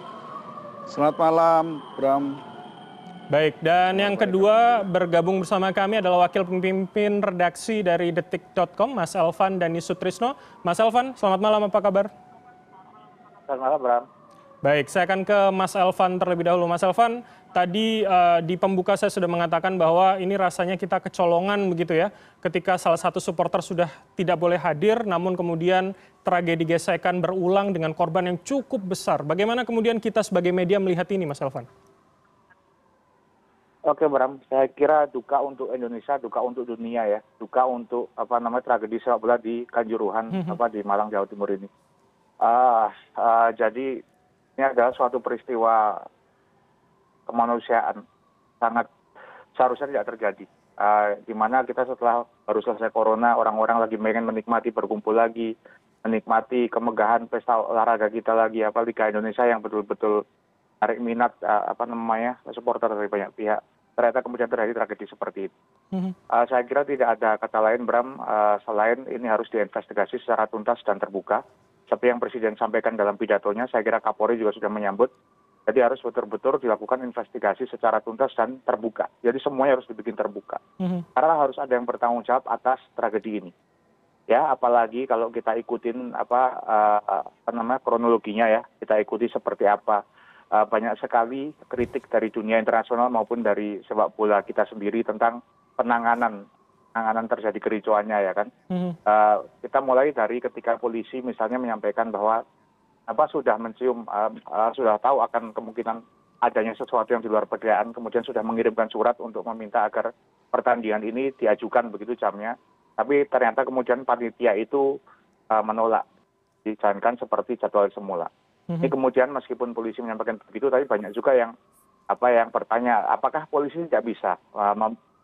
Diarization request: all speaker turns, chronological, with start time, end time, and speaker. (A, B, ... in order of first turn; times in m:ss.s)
0:00.9-0:02.4 A
0:03.3-0:12.1 B
0:04.0-0:04.4 A
0:13.5-0:14.1 C
0:14.6-0:31.7 B
0:33.9-0:41.7 C
0:42.4-0:44.0 C
0:44.6-0:46.1 C
0:47.3-0:48.0 C
0:48.6-0:48.9 C
0:49.6-0:55.5 C
0:56.0-1:00.2 C
1:00.8-1:05.5 C
1:06.3-1:15.1 C
1:15.7-1:20.6 C
1:20.8-1:21.1 B
1:21.2-1:23.5 C
1:24.3-1:30.0 C
1:30.5-1:38.5 C
1:38.7-1:39.0 B
1:39.1-1:42.4 C
1:43.1-1:54.9 C
1:55.5-1:56.0 C
1:56.6-1:58.3 C
1:58.8-2:01.5 C
2:02.1-2:05.0 C